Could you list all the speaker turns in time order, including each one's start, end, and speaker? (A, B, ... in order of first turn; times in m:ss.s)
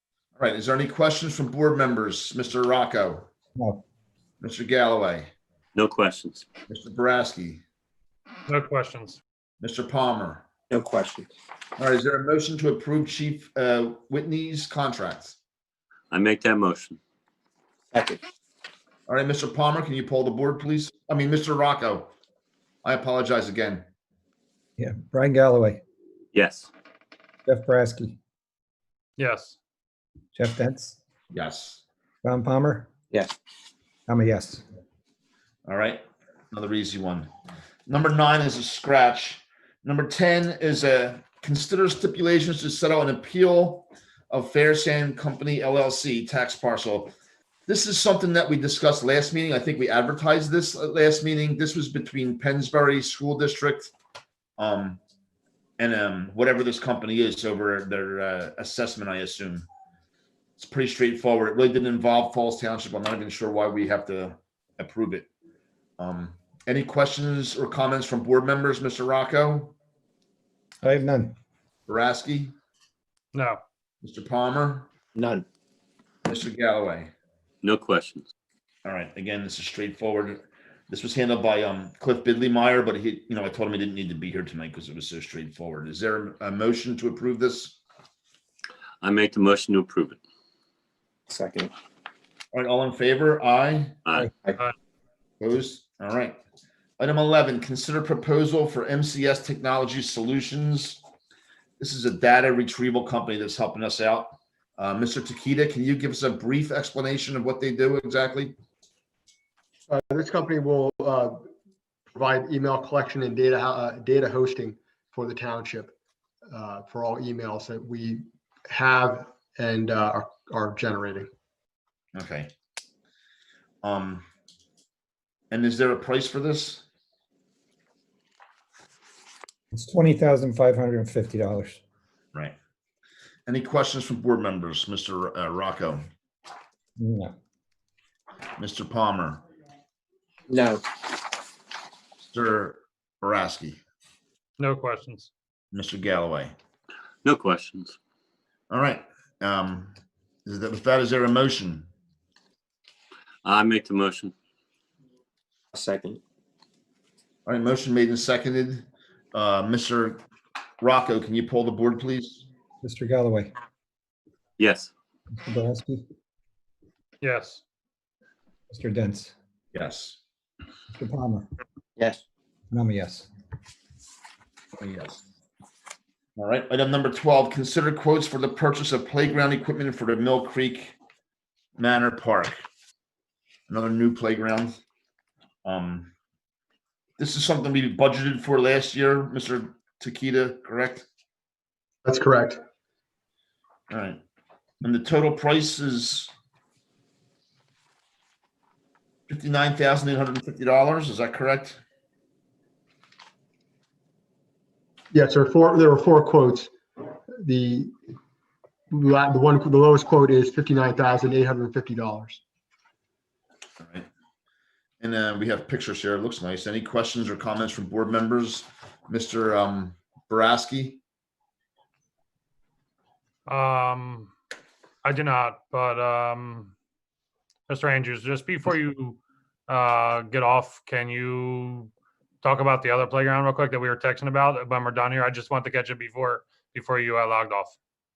0:00.4-0:03.3 A
0:03.6-0:03.8 B
0:04.4-0:05.3 A
0:05.8-0:06.5 C
0:06.7-0:07.6 A
0:08.5-0:09.2 D
0:09.6-0:10.5 A
0:10.7-0:11.3 E
0:11.8-0:15.4 A
0:16.1-0:17.0 C
0:17.9-0:18.2 E
0:19.1-0:22.1 A
0:22.8-0:23.9 A
0:24.8-0:25.8 B
0:26.3-0:26.7 C
0:27.5-0:28.2 B
0:29.2-0:29.6 D
0:30.4-0:31.0 B
0:31.3-0:31.8 A
0:32.2-0:32.9 B
0:34.1-0:34.6 B
0:35.7-0:37.3 A
0:37.9-0:47.1 A
0:47.7-0:53.9 A
0:54.6-0:55.0 A
0:55.8-0:59.7 A
1:00.6-1:05.3 A
1:06.0-1:09.8 A
1:10.8-1:11.4 B
1:11.9-1:12.6 A
1:13.3-1:13.6 D
1:14.0-1:14.9 A
1:15.2-1:15.4 E
1:16.2-1:17.1 A
1:17.6-1:18.2 C
1:18.8-1:27.8 A
1:29.0-1:30.2 C
1:31.3-1:31.7 E
1:32.5-1:34.0 A
1:34.1-1:34.3 C
1:35.4-1:36.4 A
1:37.0-1:41.0 A
1:41.8-1:48.6 A
1:49.9-1:51.5 F
1:52.1-1:55.9 F
1:56.5-2:01.3 F
2:02.2-2:02.5 A
2:03.8-2:04.3 A
2:05.5-2:06.8 A
2:09.7-2:11.8 B
2:13.5-2:16.0 A
2:17.0-2:17.3 B
2:18.6-2:19.4 A
2:20.5-2:20.8 E
2:22.3-2:23.8 A
2:24.6-2:25.3 D
2:25.7-2:26.6 A
2:27.2-2:28.0 C
2:28.7-2:29.9 A
2:30.5-2:31.9 A
2:33.4-2:34.3 C
2:35.7-2:36.2 E
2:37.4-2:40.2 A
2:40.8-2:42.5 A
2:42.8-2:43.5 B
2:44.6-2:44.9 C
2:45.4-2:46.0 B
2:47.2-2:47.6 D
2:48.7-2:49.3 B
2:49.7-2:50.2 A
2:50.9-2:51.4 B
2:52.7-2:53.3 B
2:54.8-2:55.2 A
2:56.4-3:01.0 A
3:01.8-3:02.6 A
3:03.7-3:04.8 A
3:05.6-3:06.1 A
3:07.2-3:11.1 A
3:12.0-3:12.6 F
3:13.9-3:14.2 A
3:14.8-3:16.3 A
3:19.3-3:21.8 A
3:25.1-3:27.9 F
3:28.9-3:32.4 F
3:33.8-3:34.1 A
3:35.0-3:41.0 A
3:43.5-3:44.3 D
3:45.0-3:46.7 D
3:47.7-3:51.9 D
3:52.4-3:57.8 D